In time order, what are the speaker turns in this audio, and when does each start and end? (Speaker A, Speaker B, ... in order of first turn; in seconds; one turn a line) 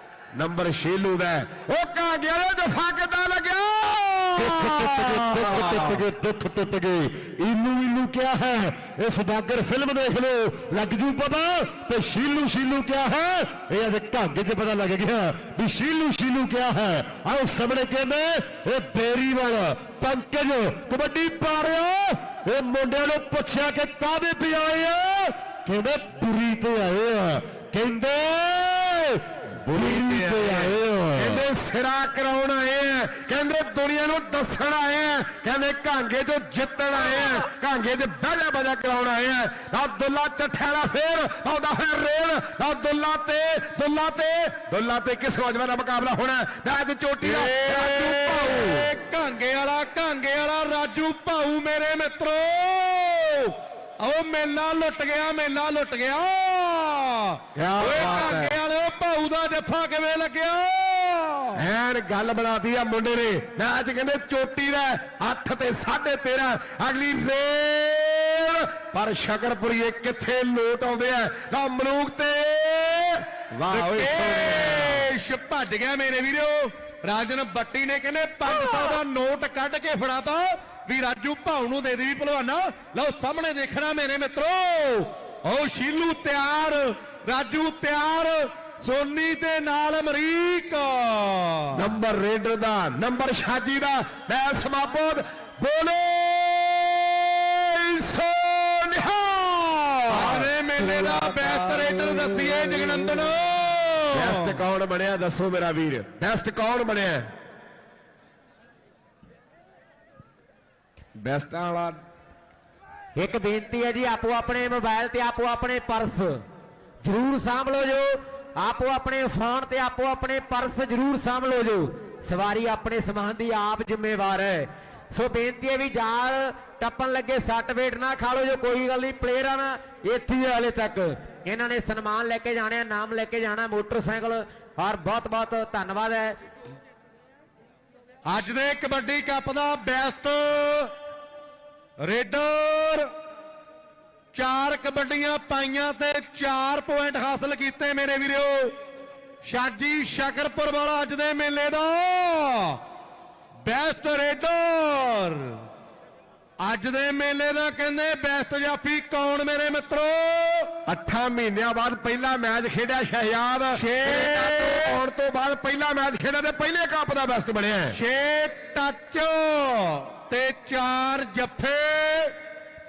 Speaker A: 0.3-6.0
Speaker B: 4.4-31.4
Speaker A: 29.7-48.9
Speaker C: 47.2-61.6
Speaker A: 57.5-58.6
Speaker A: 61.6-75.0
Speaker C: 73.7-91.8
Speaker A: 91.7-100.5
Speaker C: 100.1-104.6
Speaker A: 104.1-107.3
Speaker A: 111.2-112.0
Speaker D: 113.2-116.4
Speaker D: 117.0-136.4
Speaker C: 138.3-140.9
Speaker C: 142.0-143.1
Speaker C: 144.3-148.8
Speaker C: 149.4-152.8
Speaker C: 153.6-155.6
Speaker C: 156.6-160.7
Speaker A: 160.9-168.0
Speaker C: 163.7-165.0
Speaker C: 167.9-172.3